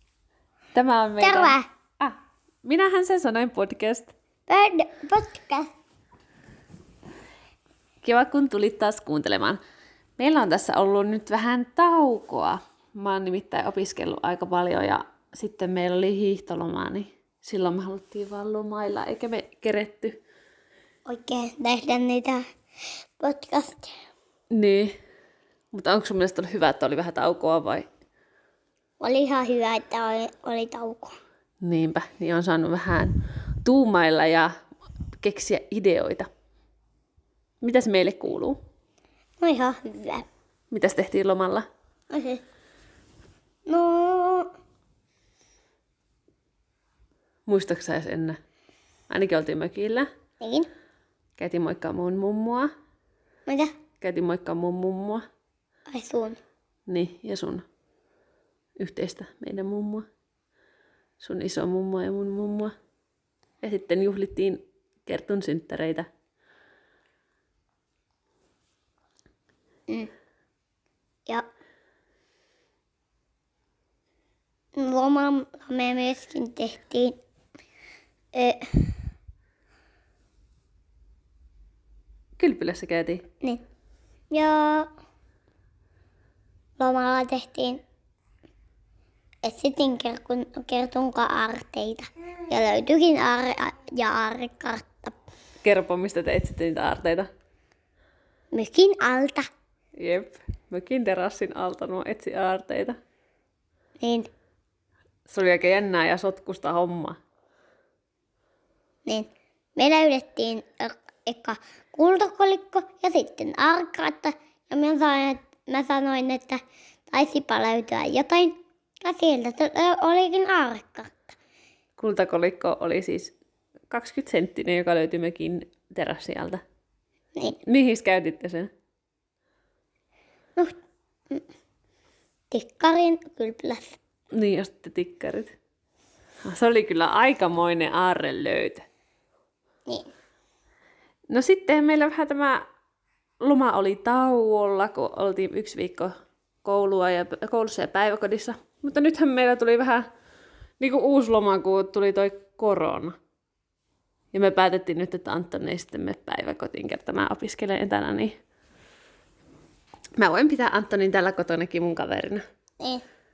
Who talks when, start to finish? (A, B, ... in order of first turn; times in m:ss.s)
0:00.7-0:04.1 A
0:01.2-0:01.7 B
0:04.5-0:05.7 B
0:08.0-0:09.6 A
0:10.2-0:20.2 A
0:21.0-0:22.4 B
0:23.2-0:23.9 B
0:24.5-0:24.9 A
0:25.7-0:27.9 A
0:29.0-0:31.2 B
0:31.6-0:34.5 A
0:35.2-0:36.3 A
0:37.6-0:38.6 A
0:39.4-0:40.2 B
0:40.7-0:41.7 A
0:42.1-0:42.4 B
0:43.6-0:44.5 B
0:47.4-0:48.4 A
0:49.1-0:50.1 A
0:50.4-0:50.7 B
0:51.4-0:52.7 A
0:53.5-0:53.7 B
0:54.0-0:55.2 A
0:55.9-0:56.4 B
0:56.9-0:57.6 A
0:58.8-1:00.0 A
1:01.2-1:02.7 A
1:03.6-1:06.1 A
1:14.8-1:17.2 B
1:18.3-1:19.0 B
1:22.4-1:23.2 A
1:24.3-1:24.9 B
1:26.8-1:27.8 B
1:29.4-1:35.2 B
1:35.6-1:37.3 A
1:38.5-1:39.5 B
1:40.0-1:43.0 A
1:44.0-1:44.3 B
1:45.3-1:47.2 A
1:49.0-2:01.3 B
2:02.0-2:03.3 A
2:03.9-2:06.6 A
2:07.6-2:08.7 A
2:12.5-2:14.0 B
2:14.3-2:15.5 A
2:16.4-2:18.8 A
2:21.3-2:22.6 A
2:23.4-2:26.1 A
2:26.6-2:30.0 A
2:30.8-2:33.2 A
2:34.3-2:38.3 A
2:40.2-2:42.4 A